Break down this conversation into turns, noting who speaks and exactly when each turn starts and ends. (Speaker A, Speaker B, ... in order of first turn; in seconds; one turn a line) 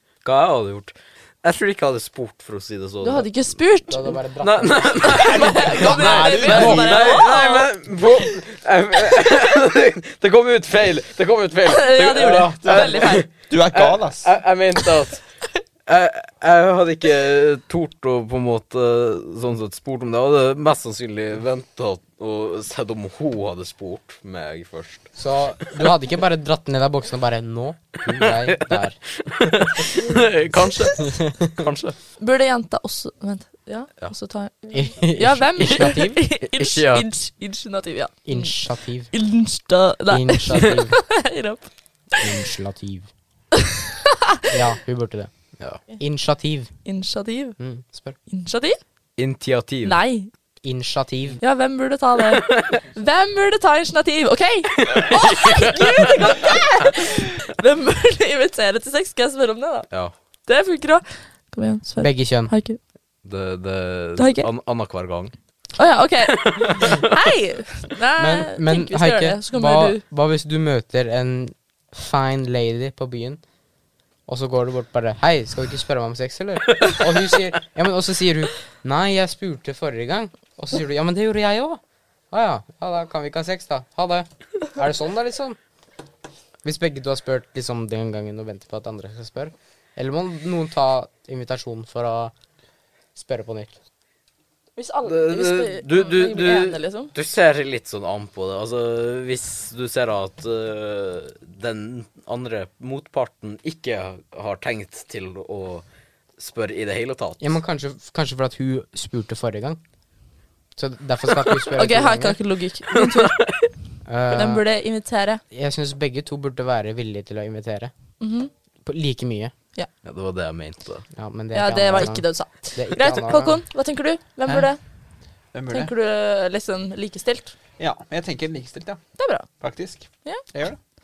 Speaker A: 0.2-3.3
Speaker B: 3.0-4.2
Speaker C: 3.9-6.9
Speaker A: 4.4-15.2
Speaker B: 5.0-7.7
Speaker D: 5.0-7.2
Speaker B: 11.6-13.3
Speaker D: 12.2-14.3
Speaker A: 15.8-25.2
Speaker C: 25.1-29.0
Speaker A: 28.1-31.9
Speaker C: 31.0-31.5
Speaker B: 32.2-42.2
Speaker C: 34.7-36.2
Speaker A: 35.6-37.1
Speaker C: 38.2-39.1
Speaker C: 40.1-41.0
Speaker C: 42.2-43.1
Speaker C: 44.5-46.7
Speaker B: 46.8-47.6
Speaker C: 47.6-48.2
Speaker B: 48.2-48.8
Speaker A: 49.2-50.0
Speaker B: 49.8-50.3
Speaker C: 50.6-51.4
Speaker B: 51.4-59.9
Speaker A: 52.5-52.8
Speaker A: 54.8-56.5
Speaker B: 60.5-62.8
Speaker C: 62.0-62.5
Speaker A: 63.2-65.3
Speaker B: 64.2-64.5
Speaker B: 65.8-70.0
Speaker A: 66.3-67.0
Speaker C: 68.2-73.4
Speaker C: 74.3-81.8
Speaker A: 76.9-77.4
Speaker C: 82.3-85.6
Speaker C: 86.6-92.3
Speaker C: 93.1-93.8
Speaker B: 94.8-97.1
Speaker A: 95.0-105.8
Speaker A: 106.4-107.5
Speaker C: 107.4-109.8
Speaker C: 110.8-112.4
Speaker B: 111.7-113.4
Speaker A: 112.9-113.7
Speaker C: 114.0-114.6
Speaker B: 114.3-115.4
Speaker C: 115.5-117.9
Speaker B: 118.2-118.5
Speaker C: 118.8-119.5
Speaker A: 120.0-121.0
Speaker C: 121.1-123.6
Speaker B: 121.5-124.8
Speaker D: 124.5-124.7
Speaker D: 125.5-125.9
Speaker B: 125.7-127.5
Speaker D: 127.8-130.8
Speaker B: 129.2-129.5